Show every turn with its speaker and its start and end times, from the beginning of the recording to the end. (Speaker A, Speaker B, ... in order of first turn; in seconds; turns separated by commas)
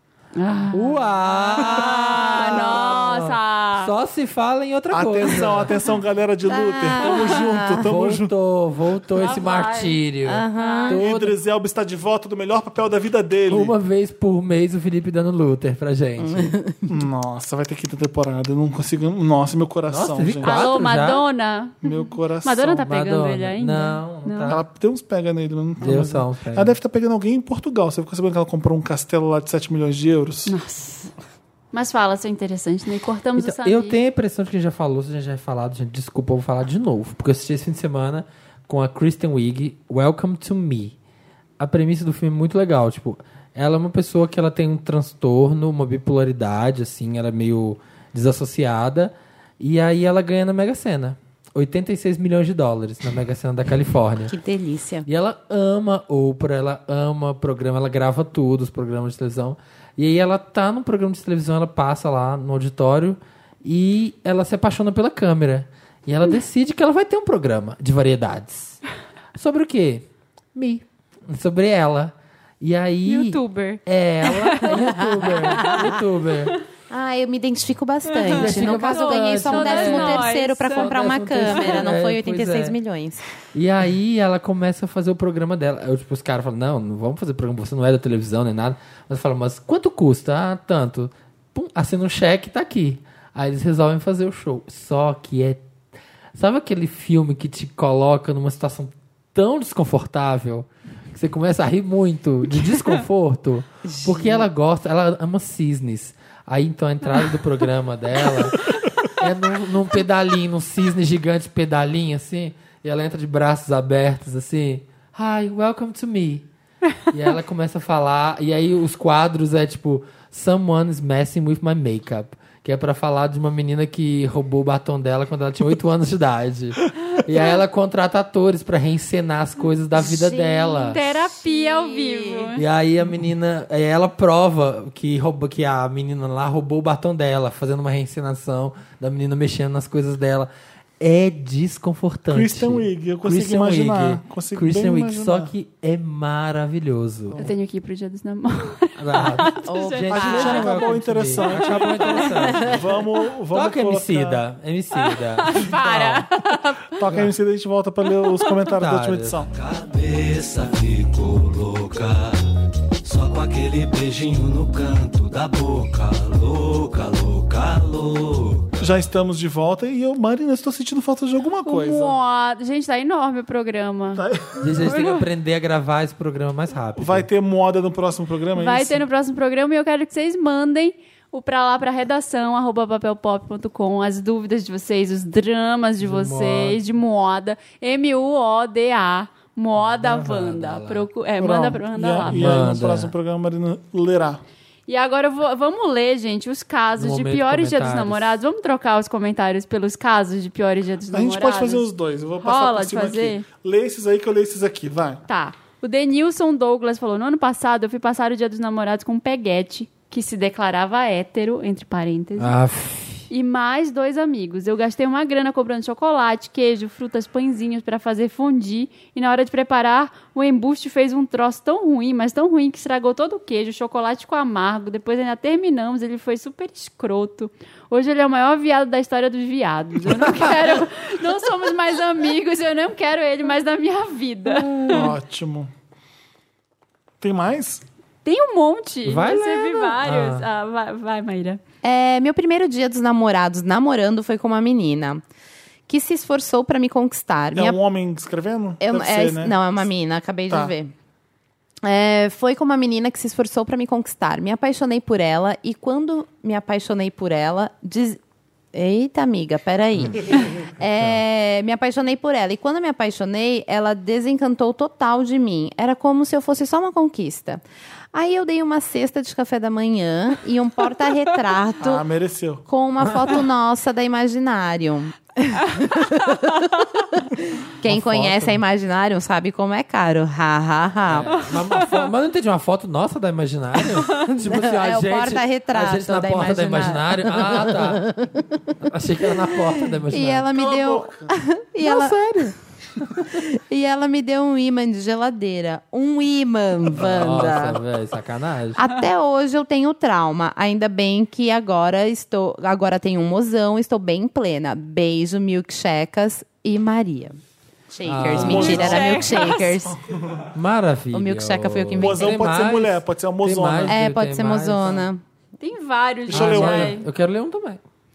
Speaker A: 0.4-3.9, Speaker B: 0.7-5.7, Speaker C: 4.9-8.3, Speaker D: 6.5-7.9, Speaker B: 7.8-11.3, Speaker A: 9.2-10.0, Speaker D: 10.2-11.0, Speaker A: 10.6-11.0, Speaker C: 10.9-13.8, Speaker B: 13.5-16.5, Speaker D: 16.2-16.9, Speaker C: 16.9-20.6, Speaker B: 19.9-21.2, Speaker A: 20.4-24.6, Speaker C: 21.8-22.8, Speaker B: 22.7-24.6, Speaker C: 24.5-30.5, Speaker B: 25.8-26.8, Speaker A: 30.5-31.1, Speaker A: 31.7-34.0, Speaker B: 33.4-41.0, Speaker B: 41.6-54.3, Speaker D: 54.3-55.1, Speaker B: 55.1-68.8, Speaker B: 69.4-76.5, Speaker A: 73.1-75.8, Speaker D: 74.7-75.9, Speaker D: 76.9-83.2, Speaker A: 78.1-80.9, Speaker B: 78.3-82.8, Speaker A: 81.5-81.8, Speaker B: 83.5-95.6, Speaker B: 96.3-116.5, Speaker D: 103.9-104.5, Speaker B: 117.1-131.1, Speaker D: 130.0-132.6, Speaker A: 130.8-132.6, Speaker B: 132.6-147.4, Speaker C: 142.3-145.5, Speaker A: 147.3-150.4, Speaker B: 149.0-152.8, Speaker D: 149.7-150.7, Speaker C: 150.1-154.4, Speaker A: 151.5-152.6, Speaker B: 153.5-156.3, Speaker A: 155.0-157.0, Speaker C: 156.9-159.5, Speaker B: 157.1-157.3, Speaker A: 158.1-158.6, Speaker B: 158.7-159.4, Speaker E: 159.5-162.4, Speaker E: 163.0-168.8, Speaker C: 168.8-172.2, Speaker A: 171.7-175.2, Speaker C: 174.2-174.6, Speaker B: 174.6-177.3, Speaker C: 177.0-179.0, Speaker A: 178.6-192.6, Speaker B: 186.0-186.8, Speaker B: 189.8-191.1, Speaker C: 191.4-194.4, Speaker B: 192.2-193.1, Speaker A: 194.9-201.9, Speaker B: 197.0-198.3, Speaker C: 201.1-205.2, Speaker A: 202.4-203.5, Speaker A: 205.3-212.5, Speaker B: 212.4-213.3, Speaker A: 213.3-235.1, Speaker B: 234.7-235.0, Speaker C: 234.8-235.7, Speaker C: 237.2-237.8, Speaker A: 238.2-241.6, Speaker B: 239.1-240.5, Speaker D: 241.8-245.2, Speaker D: 245.9-247.8, Speaker C: 247.6-249.6, Speaker D: 248.8-250.9, Speaker C: 250.5-250.7, Speaker D: 251.8-258.2, Speaker D: 258.7-272.0, Speaker B: 260.0-260.2, Speaker B: 260.8-261.2, Speaker C: 271.8-272.6, Speaker D: 272.7-281.3, Speaker B: 277.8-278.6, Speaker B: 281.1-288.1, Speaker D: 284.1-288.7, Speaker B: 288.8-290.5, Speaker D: 289.5-292.5, Speaker C: 290.5-291.4, Speaker B: 291.8-293.3, Speaker D: 293.2-297.8, Speaker B: 296.9-298.8, Speaker D: 298.8-307.4, Speaker D: 307.9-310.0, Speaker B: 308.0-309.2, Speaker C: 308.2-310.5, Speaker A: 308.4-309.8, Speaker B: 310.5-315.1, Speaker D: 311.1-312.4, Speaker C: 312.0-314.0, Speaker D: 313.9-315.2, Speaker A: 315.6-317.1, Speaker C: 316.3-317.0, Speaker B: 316.3-317.8